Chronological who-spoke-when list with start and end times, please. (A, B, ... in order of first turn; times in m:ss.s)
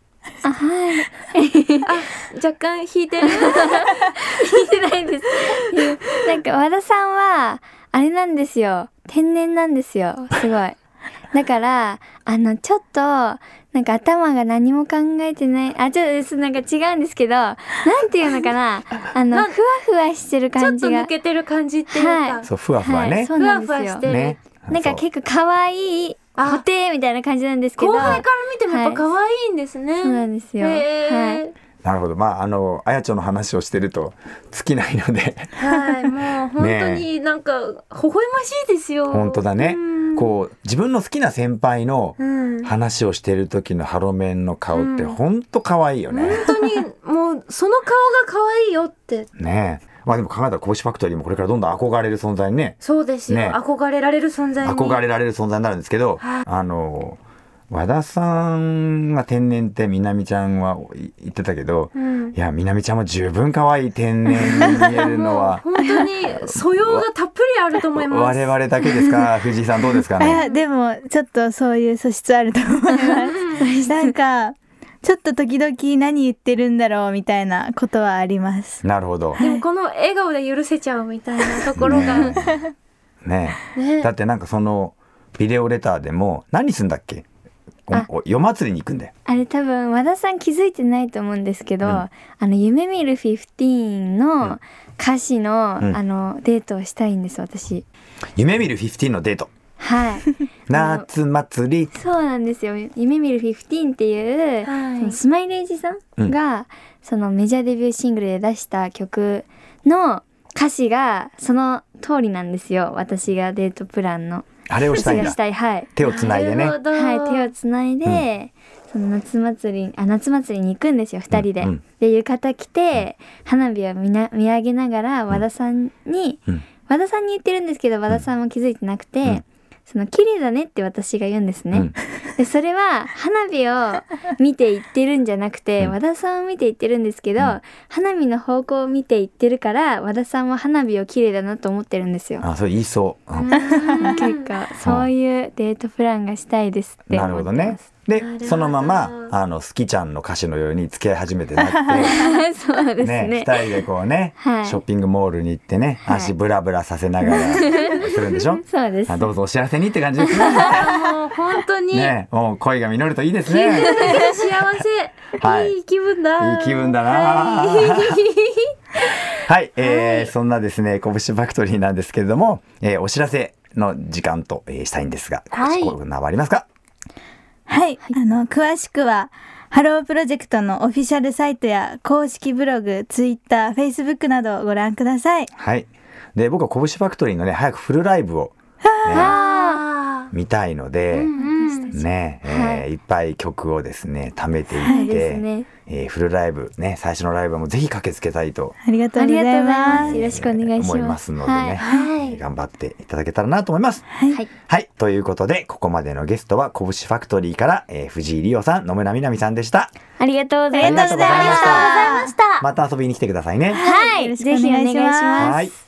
0:00.4-0:01.9 A
0:01.8-0:04.4 B
0:03.3-0:10.8 A
0:05.8-0:06.2 B
0:11.3-0:21.1 A
0:19.3-0:19.6 B
0:20.6-0:22.5 B
0:21.9-0:24.1 A
0:22.4-0:23.3 C
0:23.3-0:24.4 B
0:24.0-0:25.0 C
0:24.7-0:29.1 A
0:26.4-0:26.6 B
0:27.8-0:31.5 B
0:30.0-0:31.4 A
0:31.8-0:35.5 C
0:35.6-0:40.3 B
0:36.6-0:37.1 C
0:39.1-0:46.5 C
0:42.2-0:42.7 B
0:44.7-0:45.2 B
0:46.1-0:49.3 B
0:49.4-0:52.8 C
0:52.8-0:55.0 B
0:53.3-0:53.6 C
0:54.6-0:57.2 C
0:57.7-1:05.7 C
1:02.0-1:02.3 B
1:04.4-1:08.5 B
1:06.5-1:07.1 C
1:07.9-1:10.4 C
1:10.2-1:18.8 D
1:13.6-1:14.1 A
1:18.8-1:19.4 C
1:19.4-1:22.3 B
1:21.8-1:22.6 C
1:23.2-1:27.2 C
1:23.8-1:24.1 B
1:27.9-1:29.1 C
1:29.3-1:37.8 A
1:38.4-1:39.5 C
1:39.8-1:41.1 A
1:40.7-1:41.9 C
1:41.9-1:55.9 A
1:44.6-1:45.2 B
1:54.7-1:55.4 C
1:56.0-1:56.8 C
1:56.0-1:57.5 B
1:56.9-2:22.4 A
2:01.3-2:01.8 C
2:22.4-2:23.6 C
2:23.4-2:27.9 A
2:23.5-2:24.5 B
2:23.9-2:24.2 D
2:24.8-2:25.1 C
2:27.1-2:32.3 C
2:28.2-2:29.3 B
2:31.7-2:32.3 D
2:31.9-2:33.8 A
2:33.0-2:40.9 C
2:34.4-2:34.8 A
2:37.3-2:38.0 A
2:38.7-2:39.3 A
2:40.4-2:40.7 A
2:40.5-2:42.2 B
2:41.9-2:44.8 C
2:43.5-2:49.2 B
2:45.4-2:45.8 C
2:46.4-2:48.2 C
2:49.4-2:56.7 C
2:49.8-2:50.2 B
2:55.5-2:56.0 E
2:57.7-3:05.5 D
3:05.6-3:09.4 C
3:08.9-3:09.3 D
3:09.1-3:09.8 A
3:09.2-3:10.2 E
3:10.3-3:11.3 C
3:11.1-3:11.9 E
3:11.4-3:12.8 A
3:11.9-3:18.8 C
3:14.8-3:15.7 A
3:14.8-3:15.2 D
3:18.8-3:20.3 D
3:19.2-3:21.8 A
3:19.9-3:24.1 C
3:21.8-3:22.3 B
3:24.2-3:24.4 D
3:24.6-3:29.9 C
3:30.2-3:31.8 A
3:30.7-3:32.6 E
3:30.8-3:32.3 D
3:30.8-3:31.9 C
3:32.6-3:33.8 C
3:33.7-3:35.6 D
3:33.8-3:35.7 A
3:35.4-3:35.7 C